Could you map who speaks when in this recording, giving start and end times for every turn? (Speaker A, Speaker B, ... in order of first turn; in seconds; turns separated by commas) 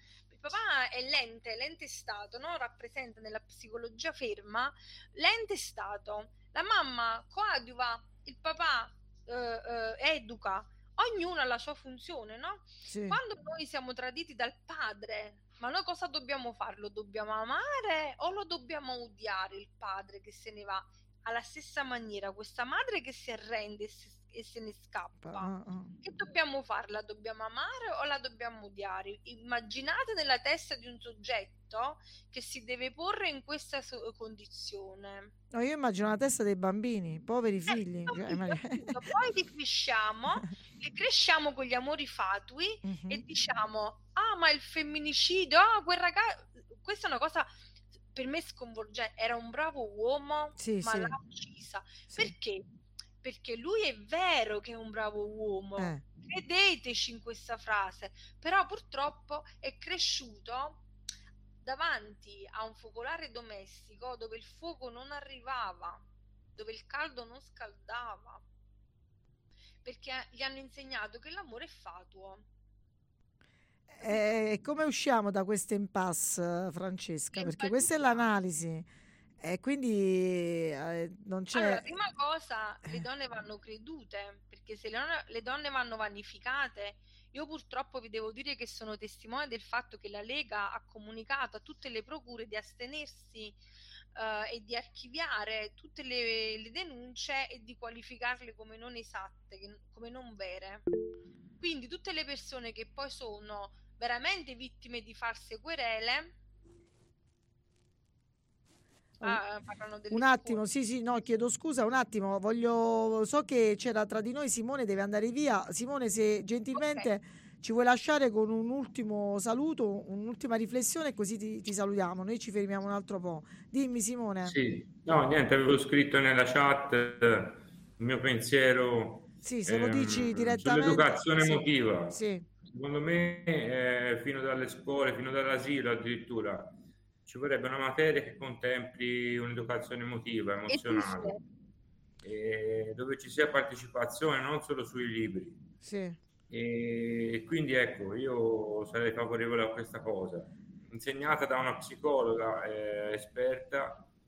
Speaker A: 0.3-35.3, Speaker B: 12.8-13.2, Speaker B: 25.2-25.9, Speaker B: 35.5-38.9, Speaker A: 38.1-47.5, Speaker B: 42.8-43.2, Speaker A: 48.1-52.6, Speaker B: 50.6-51.1, Speaker A: 53.2-60.8, Speaker B: 55.8-56.0, Speaker A: 61.6-66.0, Speaker A: 66.5-68.4, Speaker A: 69.8-72.4, Speaker B: 74.0-78.9, Speaker A: 77.3-78.3, Speaker B: 79.4-81.8, Speaker A: 81.5-93.6, Speaker A: 94.2-100.8, Speaker A: 101.6-106.3, Speaker A: 109.2-110.6, Speaker B: 110.1-124.5, Speaker A: 116.8-117.1, Speaker C: 124.4-136.7, Speaker B: 129.4-132.4, Speaker C: 137.2-141.3, Speaker A: 140.7-141.4, Speaker C: 142.2-145.6, Speaker B: 145.8-146.2, Speaker C: 146.5-154.1